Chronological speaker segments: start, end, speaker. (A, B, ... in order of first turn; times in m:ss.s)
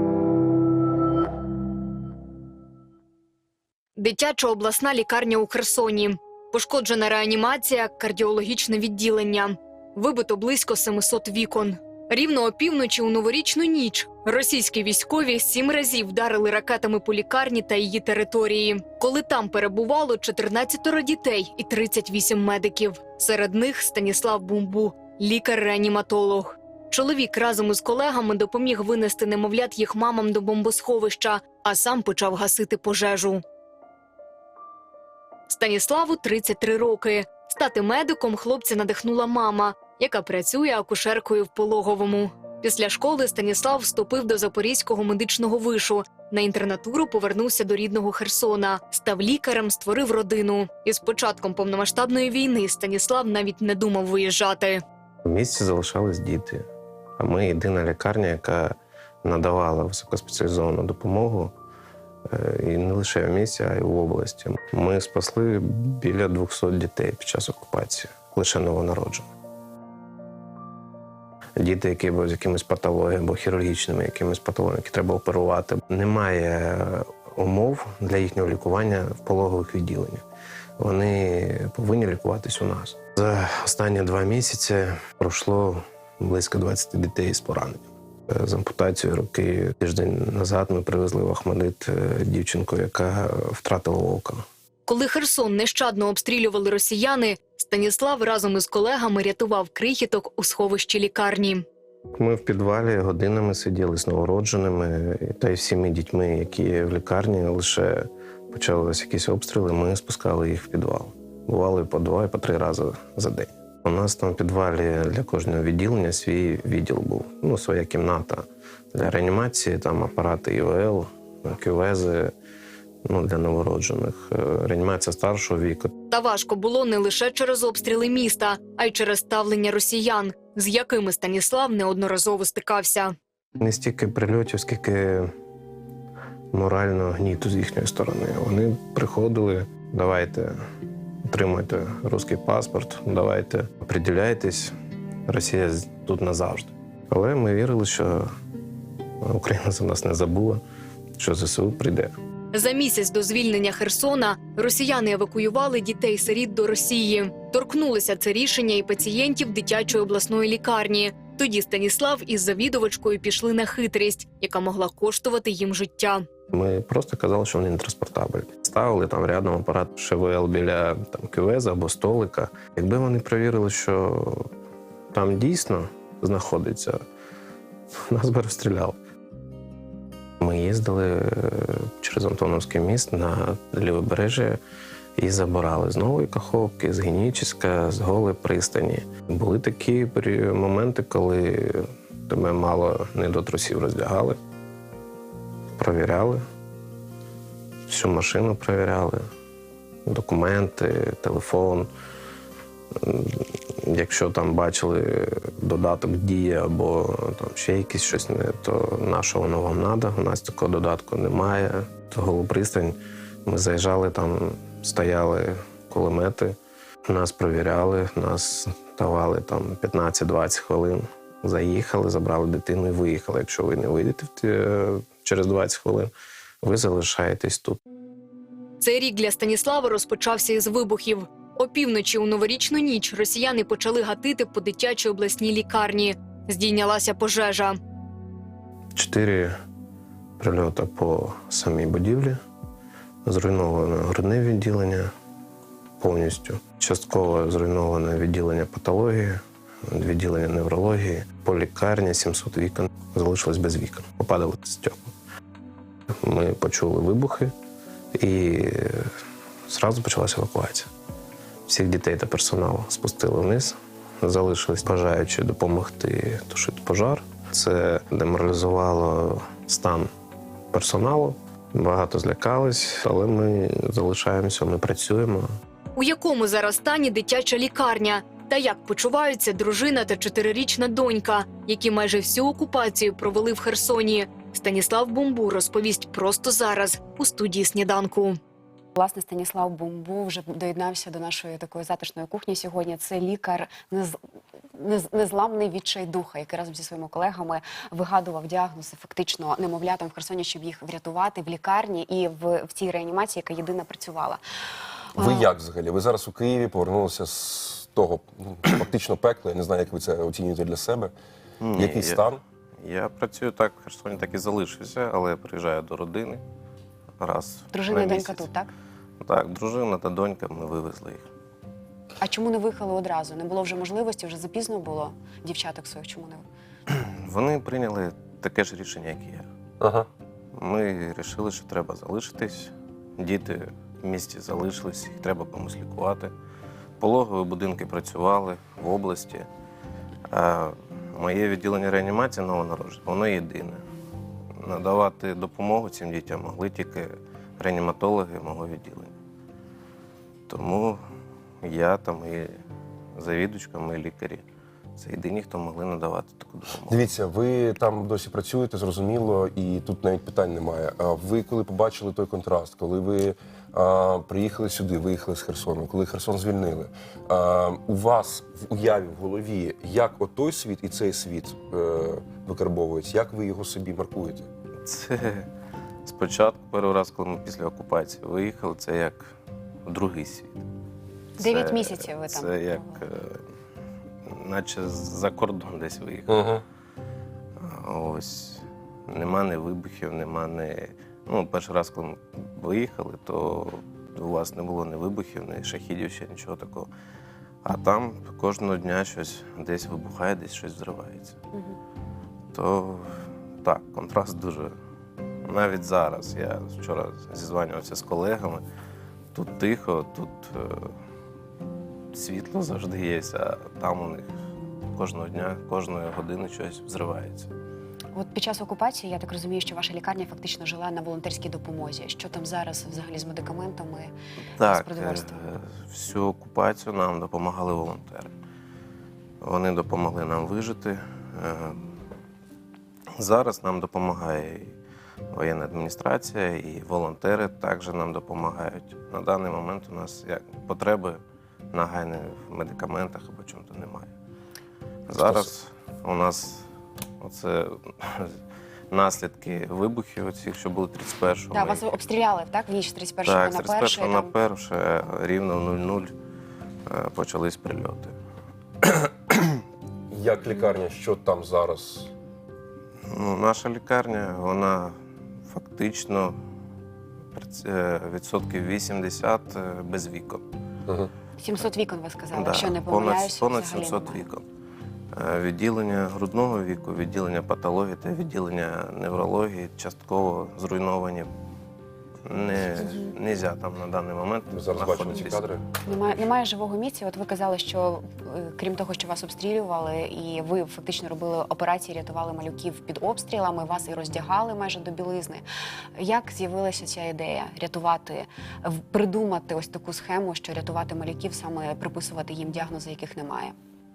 0:04.0-0:33.4 A
0:35.5-0:54.8 A
0:55.2-0:56.6 B
0:57.2-1:01.5 B
1:02.3-1:09.3 B
1:11.6-1:20.2 B
1:20.8-1:34.4 B
1:34.9-1:41.6 A
1:42.2-2:02.3 B
2:03.0-2:06.0 B
2:06.1-2:13.1 A
2:13.6-2:15.3 B
2:16.5-2:20.5 B
2:21.3-2:24.7 B
2:25.3-2:28.3 B
2:29.2-2:30.6 B
2:31.2-2:32.1 B
2:32.5-2:46.2 A
2:46.5-2:54.5 B
2:55.1-2:57.0 B
2:58.1-2:59.0 B
3:00.4-3:04.6 B
3:05.2-3:14.4 B
3:15.8-3:16.4 B
3:17.9-3:19.2 B
3:20.1-3:21.9 B
3:23.0-3:46.1 B
3:46.6-3:47.8 B
3:48.8-3:57.8 A
3:59.0-3:59.5 B
4:00.4-4:02.4 B
4:03.2-4:05.1 B
4:06.0-4:15.1 B
4:16.2-4:17.5 B
4:18.2-4:19.1 B
4:19.7-4:20.9 B
4:21.7-4:30.1 B
4:30.7-4:35.5 B
4:36.0-4:48.4 A
4:49.0-4:54.2 C
4:54.8-5:04.4 C
5:05.1-5:05.5 C
5:05.2-5:11.1 D
5:11.6-5:12.3 B
5:11.8-5:12.4 D
5:12.8-5:16.4 B
5:17.2-5:18.5 B
5:17.7-5:18.7 C
5:19.2-5:21.3 B
5:22.2-5:26.4 C
5:26.9-5:29.5 B
5:29.8-5:30.1 D
5:30.6-5:36.3 B
5:37.0-5:39.5 B
5:40.3-5:43.8 B
5:44.6-5:49.1 B
5:50.5-5:51.0 B
5:51.6-5:52.6 B
5:53.2-5:54.4 B
5:55.0-5:57.0 B
5:56.9-6:14.5 D
6:14.8-6:15.5 B
6:16.0-6:19.3 B
6:19.9-6:20.7 B
6:21.4-6:23.0 C
6:21.4-6:23.4 B
6:24.3-6:26.5 B
6:26.3-6:26.6 D
6:27.6-6:36.9 B
6:37.6-6:41.4 B
6:42.5-6:43.1 B
6:43.6-6:44.8 B
6:45.5-6:48.6 B
6:49.3-6:50.9 B
6:52.1-6:54.3 B
6:54.9-6:57.5 B
6:58.1-7:04.1 C
7:04.6-7:08.3 B
7:04.7-7:05.4 C
7:09.4-7:11.9 B
7:13.2-7:14.8 B
7:15.3-7:21.2 B
7:21.7-7:24.1 B
7:25.1-7:26.7 B
7:25.2-7:25.5 D
7:27.2-7:28.4 B
7:28.9-7:31.9 B
7:31.5-7:34.4 C
7:33.2-7:36.1 B
7:36.9-7:38.2 B
7:40.1-7:42.1 D
7:43.1-7:45.0 B
7:45.5-7:46.4 B
7:47.3-7:50.4 B
7:51.4-7:54.3 C
7:52.3-7:54.4 B
7:55.2-8:01.3 B
8:02.3-8:05.5 B
8:04.5-8:05.6 D
8:05.8-8:15.4 C
8:16.0-8:23.6 C